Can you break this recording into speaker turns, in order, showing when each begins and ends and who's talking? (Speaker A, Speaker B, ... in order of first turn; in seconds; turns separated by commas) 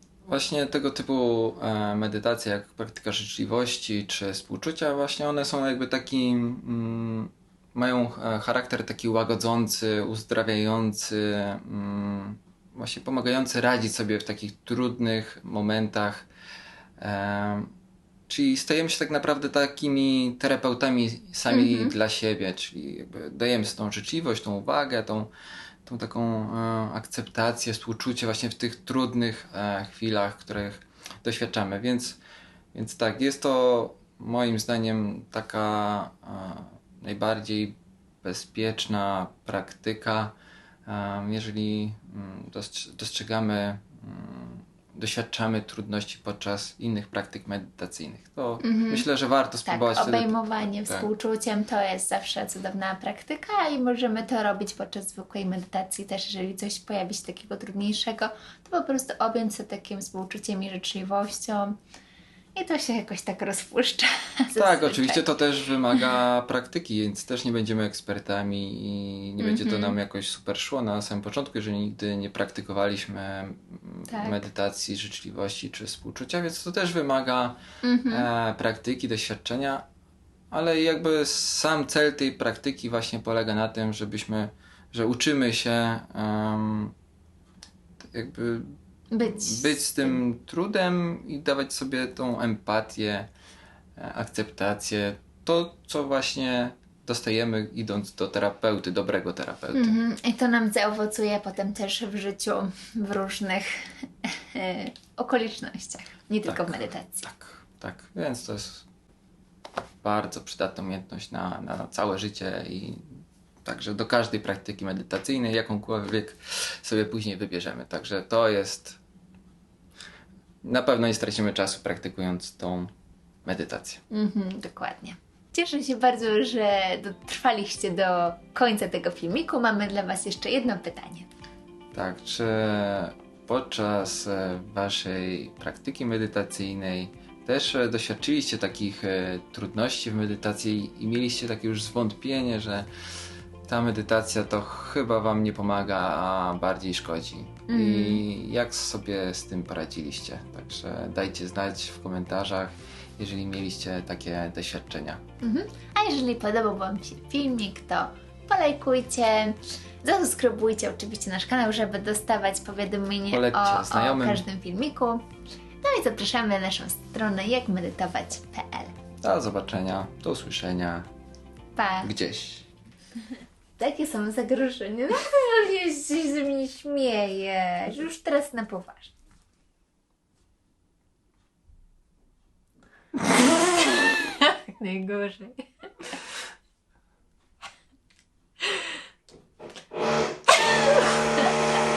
Speaker A: 0.3-16.3, Speaker A: 17.0-17.7, Speaker A: 18.3-25.3, Speaker B: 21.5-22.0, Speaker A: 25.9-32.2, Speaker A: 32.7-40.3, Speaker A: 40.9-51.1, Speaker B: 48.6-49.1, Speaker B: 49.6-61.8, Speaker B: 62.5-65.3, Speaker A: 64.5-79.8, Speaker B: 69.4-70.0, Speaker B: 74.1-74.4, Speaker B: 77.8-78.3, Speaker A: 80.5-87.0, Speaker A: 88.0-93.3, Speaker B: 89.1-90.2, Speaker A: 94.0-100.0, Speaker B: 99.7-107.3, Speaker A: 106.5-108.9, Speaker A: 110.0-113.0, Speaker A: 113.6-119.0, Speaker A: 120.6-122.9, Speaker A: 123.5-124.0, Speaker B: 124.1-131.3, Speaker A: 131.9-142.9, Speaker A: 143.7-155.2, Speaker B: 147.7-148.2, Speaker B: 155.4-165.3, Speaker A: 163.3-164.4, Speaker B: 165.8-169.0, Speaker A: 169.2-171.1, Speaker B: 171.8-172.1, Speaker A: 172.0-172.7, Speaker B: 173.8-179.1, Speaker B: 183.6-186.1, Speaker B: 190.7-191.6